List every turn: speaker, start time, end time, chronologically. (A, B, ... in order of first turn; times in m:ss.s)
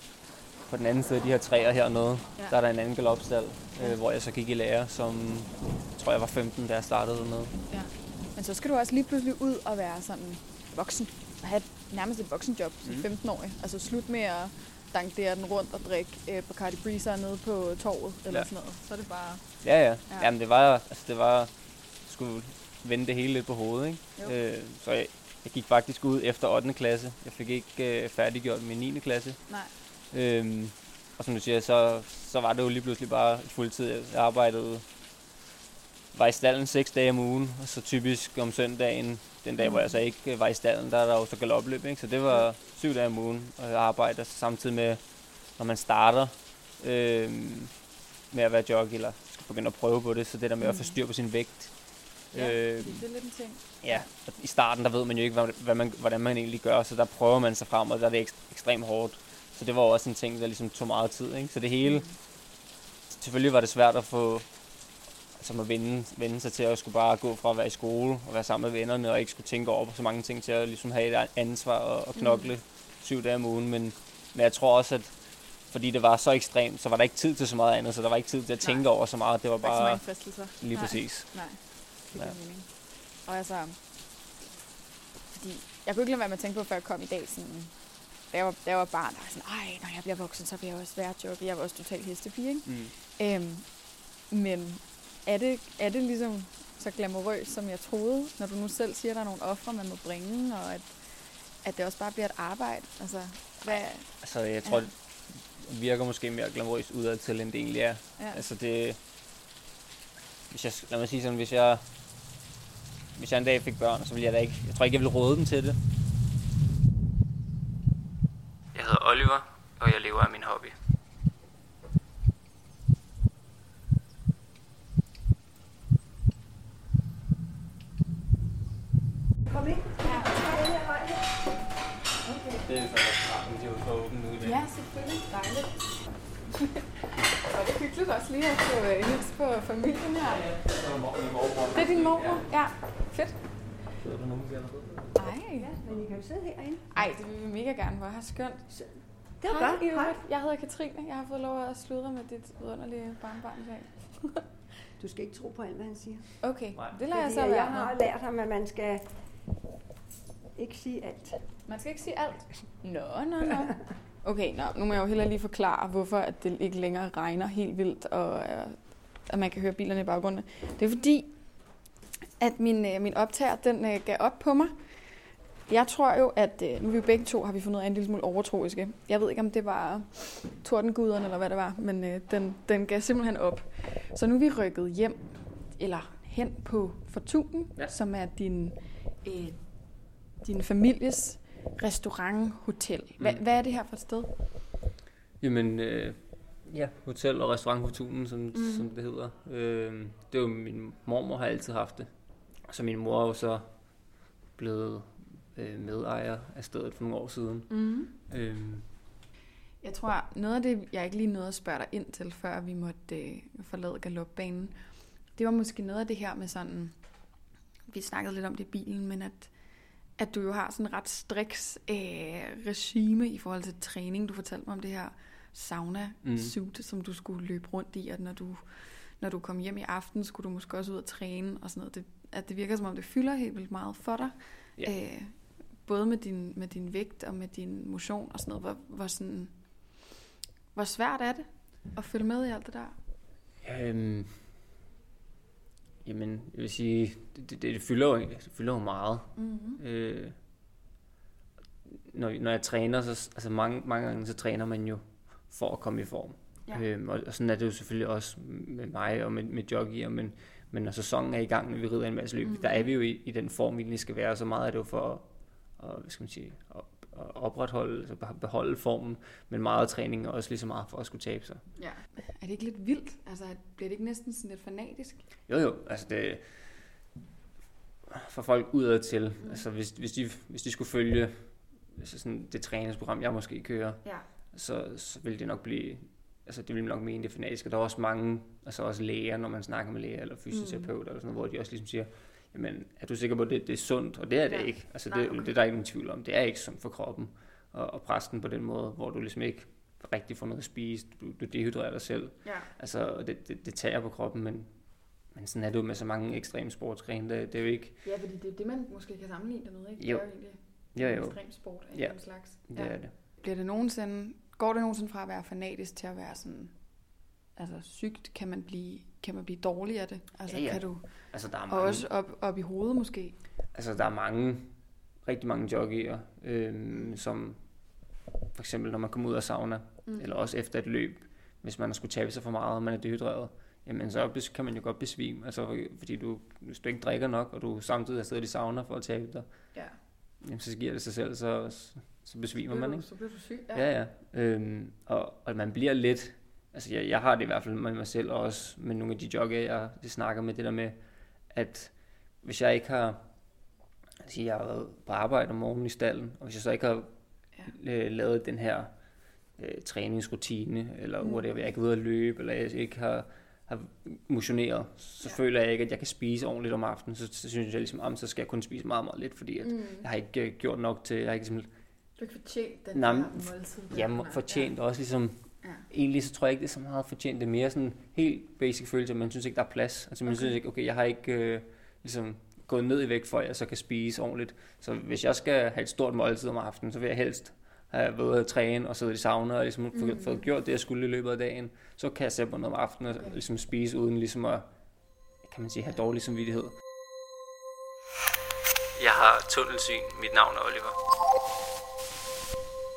0:00.7-0:07.5 A
0:07.7-0:19.4 B
0:19.6-0:21.5 A
0:22.0-0:29.4 A
0:30.1-0:34.8 A
0:36.1-0:45.0 A
0:39.6-0:40.0 B
0:45.6-0:47.7 A
0:48.3-0:51.7 A
0:50.6-0:51.0 B
0:52.3-0:53.0 A
0:52.3-0:54.0 B
0:53.8-1:02.1 A
1:01.8-1:02.1 B
1:03.1-1:04.5 A
1:05.4-1:15.1 A
1:12.2-1:12.5 B
1:15.7-1:20.0 A
1:19.6-1:21.6 B
1:20.6-1:21.3 A
1:22.1-1:22.7 B
1:23.2-1:23.8 B
1:25.3-1:27.7 B
1:28.3-1:33.7 B
1:32.6-1:32.9 A
1:34.3-1:40.9 B
1:41.6-1:44.1 B
1:44.2-1:49.0 A
1:44.6-1:44.9 B
1:48.2-1:48.4 B
1:50.5-1:51.8 A
1:53.2-1:55.8 A
1:58.7-2:00.7 A
2:09.5-2:11.5 C
2:10.0-2:10.7 B
2:12.2-2:12.7 B
2:12.6-2:14.6 A
2:14.4-2:16.0 B
2:16.5-2:20.5 B
2:20.4-2:22.4 A
2:21.7-2:23.4 B
2:24.0-2:25.1 A
2:25.1-2:25.7 B
2:25.5-2:27.0 C
2:26.9-2:28.7 B
2:28.7-2:30.2 C
2:29.4-2:34.4 B
2:35.0-2:36.4 C
2:36.4-2:38.0 B
2:37.0-2:39.2 C
2:40.5-2:41.6 C
2:41.6-2:51.3 B
2:52.2-2:54.8 B
2:55.7-3:09.6 B
3:10.4-3:14.3 B
3:15.4-3:22.1 A
3:18.5-3:18.9 B
3:22.7-3:23.7 A
3:24.6-3:28.9 A
3:27.7-3:28.1 B
3:29.8-3:34.8 B
3:35.3-3:37.0 B
3:37.9-3:39.5 B
3:40.2-3:59.5 B
3:46.2-3:46.5 A
4:00.7-4:03.0 B
4:03.6-4:04.5 A
4:06.0-4:10.4 A
4:09.4-4:09.8 B
4:11.9-4:25.2 A
4:22.4-4:22.8 B
4:25.8-4:31.6 A
4:31.8-4:35.2 B
4:35.5-4:36.5 A
4:38.1-5:04.7 A
4:50.5-4:50.9 B
4:54.5-4:55.5 B
5:02.4-5:02.7 B
5:05.3-5:08.0 A
5:08.0-5:16.7 B
5:10.0-5:10.2 A
5:10.9-5:11.4 A
5:11.9-5:13.1 A
5:17.6-5:21.0 B
5:20.5-5:22.1 A
5:21.7-5:23.4 B
5:23.7-5:27.6 A
5:28.5-5:39.5 A
5:30.1-5:30.4 B
5:40.4-5:43.0 A
5:42.6-5:43.9 B
5:43.7-5:50.9 A
5:51.5-5:53.2 A
5:54.2-5:57.1 A
5:57.6-5:58.9 A
5:59.6-6:11.7 A
6:09.6-6:10.0 B
6:12.2-6:14.7 B
6:12.9-6:34.7 A
6:20.3-6:20.5 B
6:29.9-6:30.4 B
6:35.4-6:36.8 A
6:39.0-6:41.0 A